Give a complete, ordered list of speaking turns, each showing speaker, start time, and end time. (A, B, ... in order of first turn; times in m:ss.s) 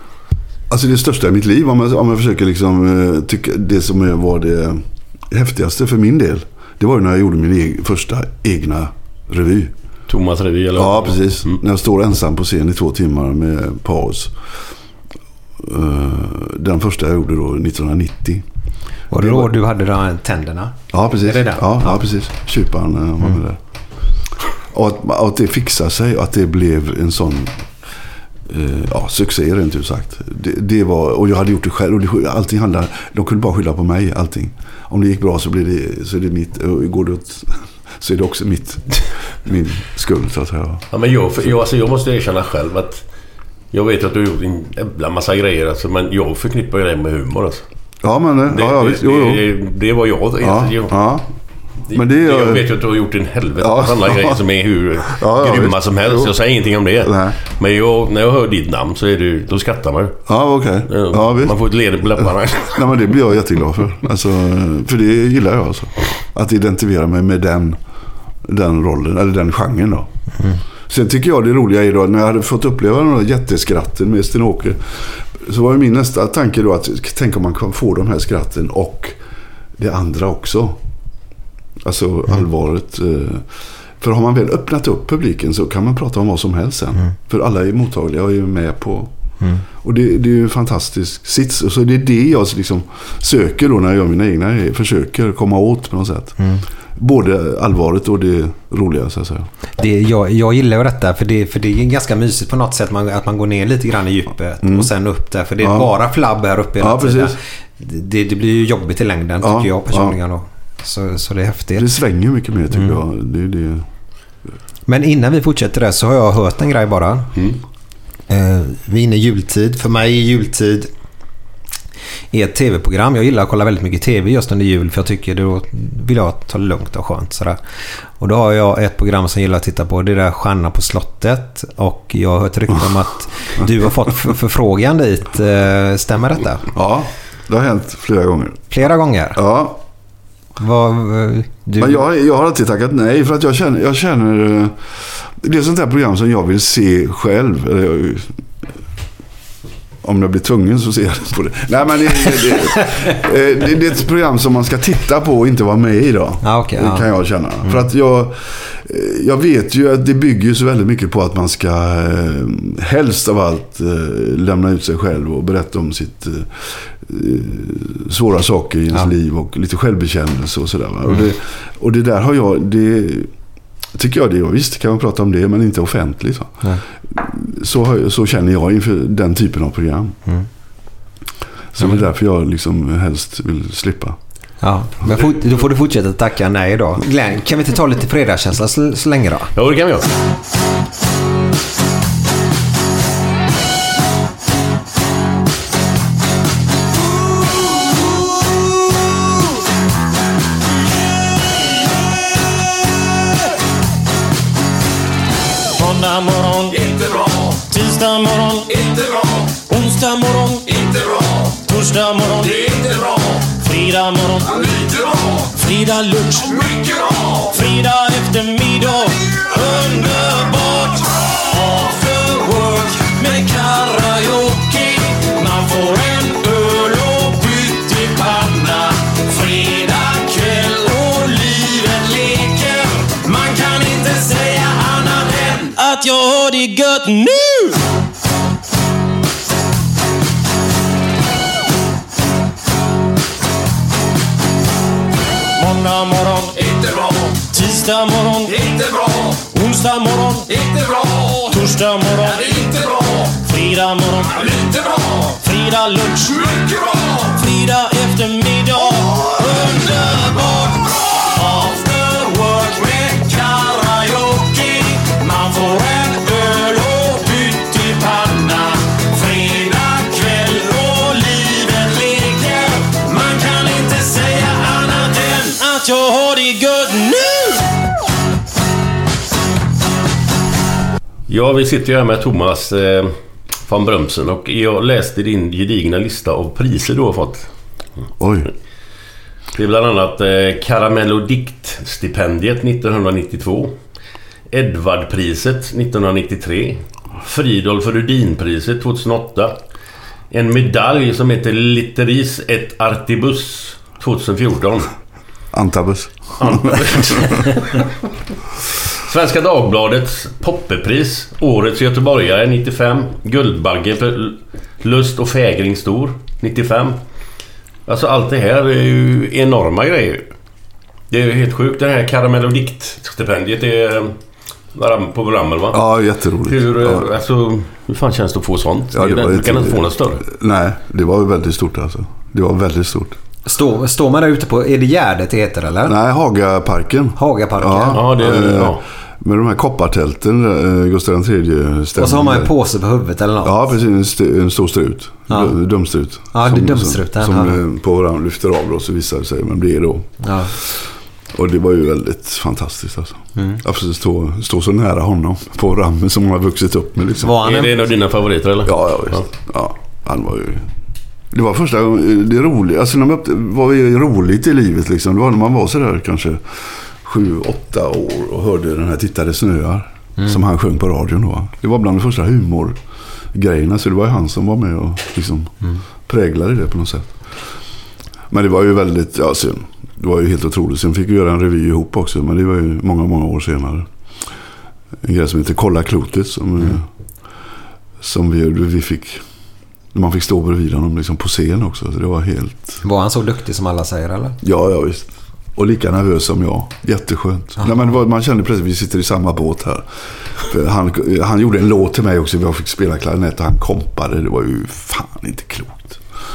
0:00.7-0:09.7 A
0:10.1-0:11.6 B
0:10.8-0:14.3 A
0:15.6-0:18.5 A
0:19.1-0:22.0 C
0:19.1-0:19.5 A
0:20.9-0:23.6 A
0:24.7-0:27.6 A
0:28.5-0:40.8 A
0:40.9-0:43.0 B
0:43.7-0:47.6 B
0:48.0-0:49.4 A
0:48.5-0:51.0 B
0:50.4-0:51.3 A
0:51.9-0:52.6 A
0:51.9-1:00.2 B
0:53.6-0:54.4 A
0:55.1-0:56.3 A
0:57.0-0:57.4 A
1:00.3-1:01.6 A
1:00.9-1:02.9 B
1:02.2-1:07.8 A
1:08.4-1:10.1 A
1:10.9-1:19.2 A
1:19.8-1:20.8 A
1:21.8-1:23.5 A
1:24.0-1:29.1 A
1:29.8-1:36.4 A
1:37.0-1:39.5 A
1:39.8-1:51.9 C
1:44.6-1:44.9 A
1:45.6-1:45.9 A
1:46.8-1:47.4 A
1:49.4-1:50.2 A
1:51.8-1:53.9 A
1:54.9-1:57.3 C
1:58.3-2:00.9 C
2:02.3-2:07.6 C
2:08.2-2:16.6 C
2:16.7-2:18.7 A
2:18.7-2:19.4 C
2:19.4-2:19.8 A
2:20.6-2:22.0 C
2:21.8-2:24.8 A
2:25.4-2:28.3 A
2:30.0-2:53.3 A
2:36.4-2:37.1 C
2:53.9-3:00.2 A
3:01.7-3:04.2 A
3:04.6-3:09.5 C
3:09.6-3:10.1 B
3:25.8-3:57.8 D
4:05.6-4:37.7 D
4:41.3-4:43.1 B
4:43.7-4:47.5 B
4:48.2-4:48.5 A
4:49.6-4:53.8 B
4:54.5-4:59.6 B
5:00.3-5:04.9 B
5:05.5-5:07.4 A
5:06.4-5:07.9 B
5:09.0-5:17.0 B
5:17.9-5:20.3 B
5:21.1-5:24.2 B
5:24.7-5:25.8 B
5:25.7-5:27.1 A
5:26.5-5:30.2 B
5:28.9-5:33.2 A
5:33.5-5:36.0 C
5:35.8-5:42.5 A
5:37.2-5:38.0 C
5:37.9-5:38.8 B
5:42.0-5:43.7 C
5:43.4-5:50.8 A
5:45.3-5:45.5 C
5:46.3-5:47.6 C
5:50.2-5:50.5 C
5:51.3-5:57.4 A
5:53.4-5:53.6 C
5:57.2-5:57.8 C
5:57.4-5:59.2 B
5:58.6-6:00.7 A
6:01.3-6:12.8 A
6:13.3-6:15.5 A
6:16.1-6:17.1 A
6:18.3-6:23.9 A
6:25.0-6:26.9 A
6:28.0-6:29.2 A
6:29.9-6:32.8 A
6:32.8-6:34.4 C
6:34.4-6:39.9 A
6:40.4-6:46.0 A